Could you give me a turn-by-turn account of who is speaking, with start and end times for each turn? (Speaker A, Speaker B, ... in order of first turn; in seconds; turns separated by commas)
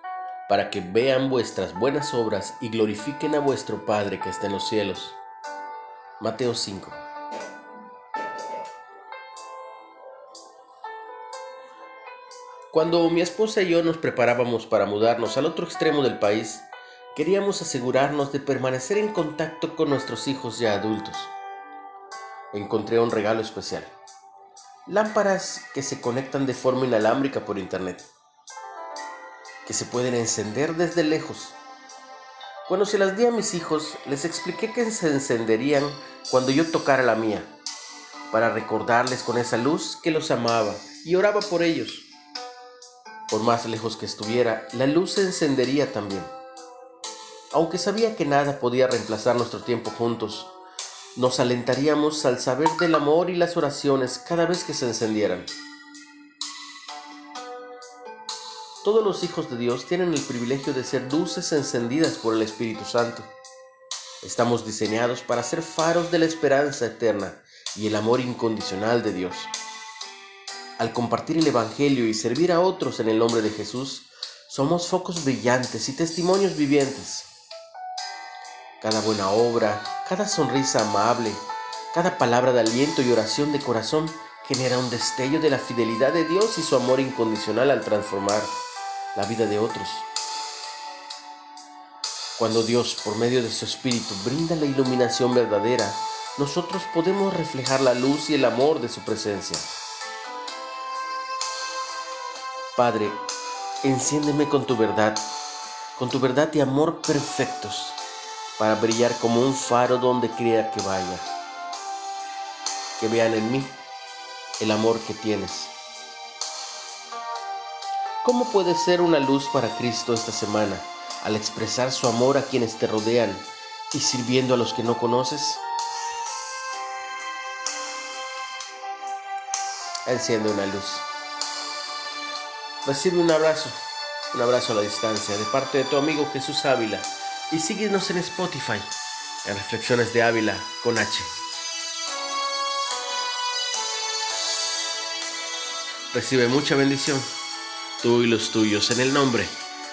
Speaker A: 0.5-5.2, Speaker A: 6.2-7.0, Speaker A: 12.7-21.3, Speaker A: 22.5-23.9, Speaker A: 24.9-28.1, Speaker A: 29.6-31.6, Speaker A: 32.7-37.5, Speaker A: 38.3-42.1, Speaker A: 43.3-46.3, Speaker A: 47.5-50.5, Speaker A: 51.1-55.5, Speaker A: 58.8-63.3, Speaker A: 64.2-69.5, Speaker A: 70.8-77.3, Speaker A: 78.8-88.5, Speaker A: 89.1-90.1, Speaker A: 92.3-99.7, Speaker A: 102.7-103.2, Speaker A: 103.8-105.2, Speaker A: 106.0-108.0, Speaker A: 108.6-111.3, Speaker A: 113.0-113.8, Speaker A: 114.6-115.7, Speaker A: 118.2-125.6, Speaker A: 130.0-131.1, Speaker A: 132.8-133.8, Speaker A: 134.3-138.9, Speaker A: 139.4-141.3, Speaker A: 146.1-147.3, Speaker A: 148.0-149.5